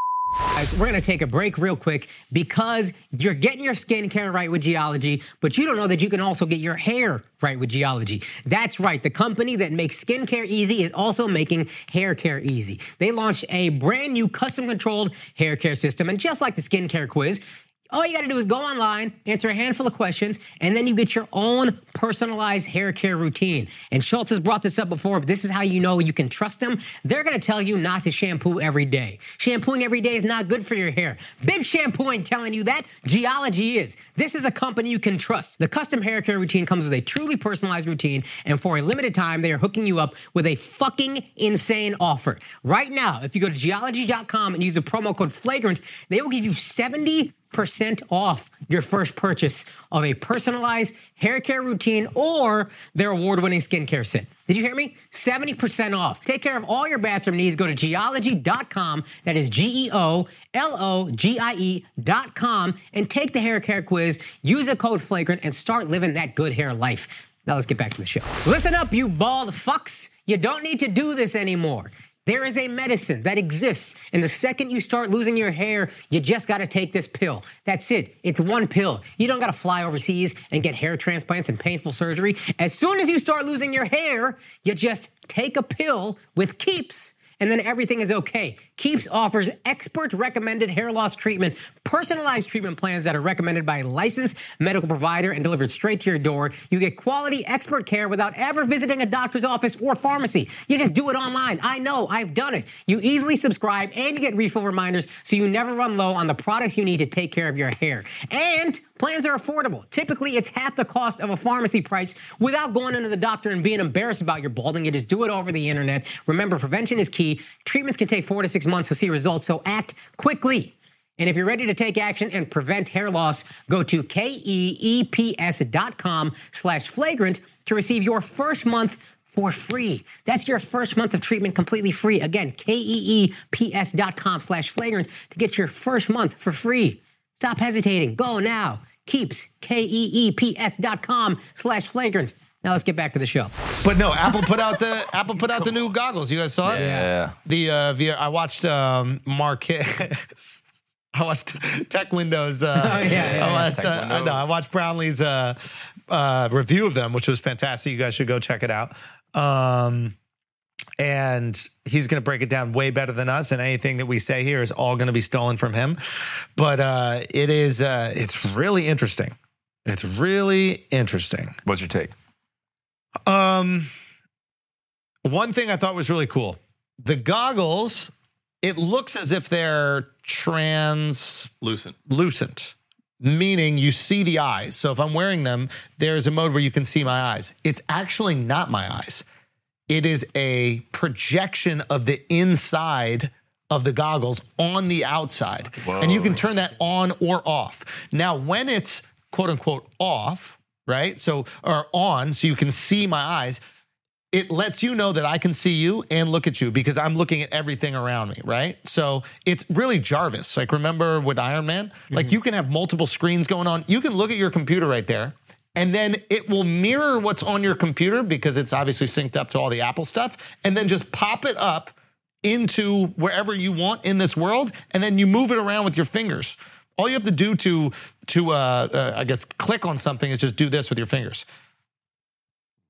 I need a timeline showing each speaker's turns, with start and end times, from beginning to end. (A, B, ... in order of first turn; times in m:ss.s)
0:00.5-2:23.7 A
2:23.8-2:26.9 B
2:26.6-2:27.3 C
2:26.8-2:27.1 A
2:27.4-2:30.6 B
2:31.1-2:35.6 B
2:32.8-2:33.7 A
2:33.0-2:34.4 C
2:36.1-2:40.1 B
2:41.0-2:46.0 B
2:46.6-2:51.6 B
2:51.6-2:52.1 C
2:53.2-2:53.9 B
2:55.2-3:01.5 B
3:01.6-3:01.9 C
3:02.0-3:09.2 B
3:09.9-3:23.6 B
3:15.8-3:16.4 C
3:24.3-3:51.4 B